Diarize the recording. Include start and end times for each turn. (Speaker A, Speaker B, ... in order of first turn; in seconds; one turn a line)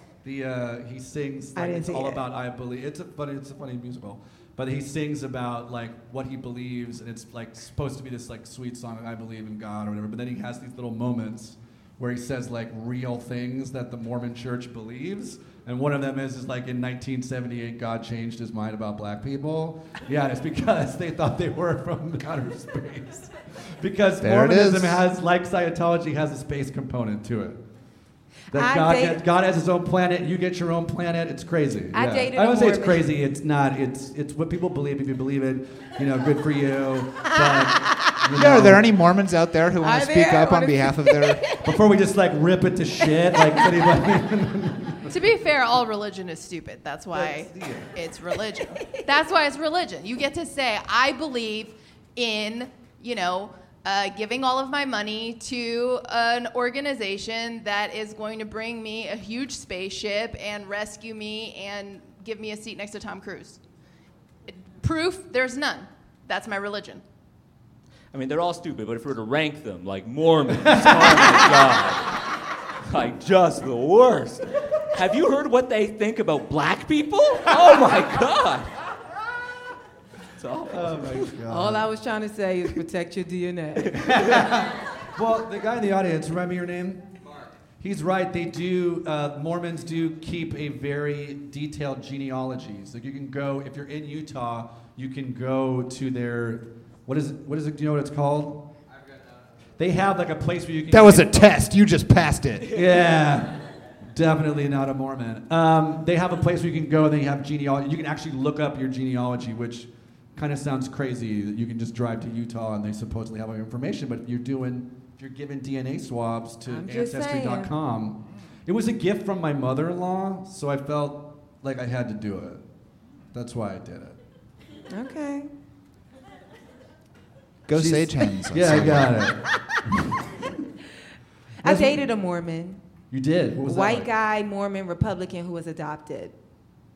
Speaker A: 0.2-27.6
Speaker B: 1.6-2.2
Speaker C: 24.2-25.0
Speaker B: 28.5-29.2
Speaker A: 28.5-38.9
Speaker B: 31.9-33.1
Speaker B: 37.3-38.1
Speaker C: 38.3-41.4
Speaker B: 39.8-41.8
Speaker A: 41.6-45.1
Speaker B: 43.3-43.9
Speaker D: 45.1-63.6
Speaker A: 47.1-47.9
Speaker B: 48.6-49.0
Speaker D: 64.5-67.0
Speaker E: 68.1-72.1
Speaker A: 70.6-71.5
Speaker E: 72.8-78.7
Speaker E: 80.4-81.3
Speaker A: 80.7-81.9
Speaker B: 81.5-84.1
Speaker A: 83.9-87.1
Speaker E: 84.1-84.3
Speaker A: 87.8-98.7
Speaker A: 99.8-101.6
Speaker C: 100.9-102.7
Speaker A: 102.7-122.6
Speaker B: 116.7-117.7
Speaker A: 123.3-124.2
Speaker B: 124.9-125.5
Speaker C: 127.7-129.2
Speaker A: 127.7-130.0
Speaker B: 129.5-129.8
Speaker A: 131.6-132.0
Speaker B: 131.6-132.8
Speaker A: 133.1-134.1
Speaker B: 133.6-136.3